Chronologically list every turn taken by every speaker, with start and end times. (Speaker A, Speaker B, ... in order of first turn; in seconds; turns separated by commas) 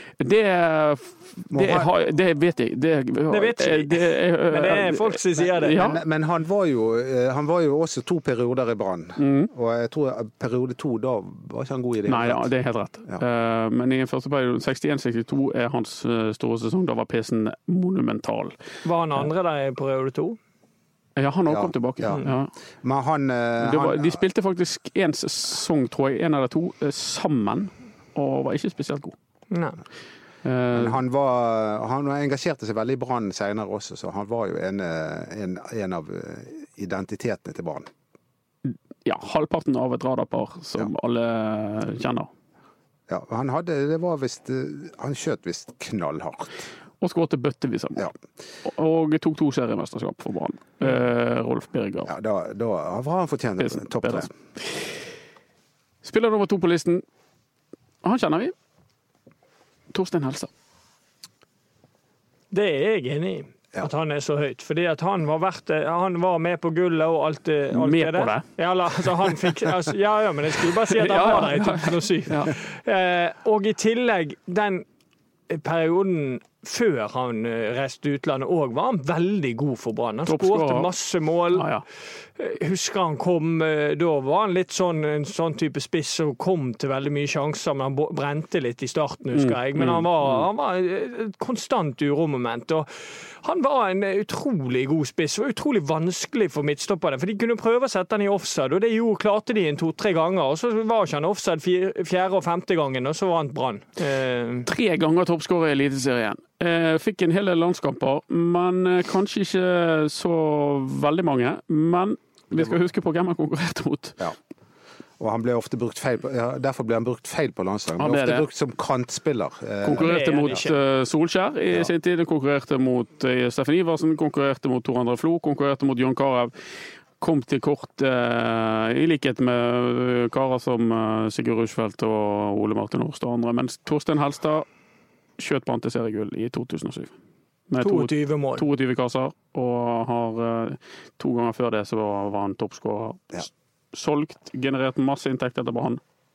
Speaker A: 0.2-6.0, Speaker B: 1.5-1.9, Speaker C: 3.3-5.9, Speaker B: 5.7-12.5, Speaker A: 9.2-9.5, Speaker A: 12.1-18.5, Speaker C: 18.8-20.4, Speaker A: 21.1-22.5, Speaker B: 21.5-22.3, Speaker B: 22.8-24.2, Speaker A: 23.6-29.1, Speaker C: 29.5-29.8, Speaker A: 30.4-31.0, Speaker B: 30.7-37.9, Speaker A: 38.6-42.3, Speaker B: 43.1-46.6, Speaker A: 47.0-48.1, Speaker A: 48.6-52.1, Speaker B: 52.0-54.3, Speaker A: 53.6-54.8, Speaker A: 56.0-57.0, Speaker A: 58.0-58.5, Speaker A: 59.9-60.5, Speaker C: 62.5-74.8, Speaker A: 67.7-68.5, Speaker A: 70.9-72.5, Speaker C: 75.5-81.7, Speaker A: 80.2-80.9, Speaker A: 81.5-81.8, Speaker C: 82.3-92.9, Speaker A: 89.3-90.5, Speaker C: 93.4-104.7, Speaker A: 104.7-114.2, Speaker B: 115.2-120.6, Speaker A: 118.0-118.4, Speaker A: 119.8-126.5, Speaker C: 120.0-120.8, Speaker A: 127.2-134.7, Speaker A: 135.4-137.1, Speaker A: 137.7-146.0, Speaker C: 137.8-138.7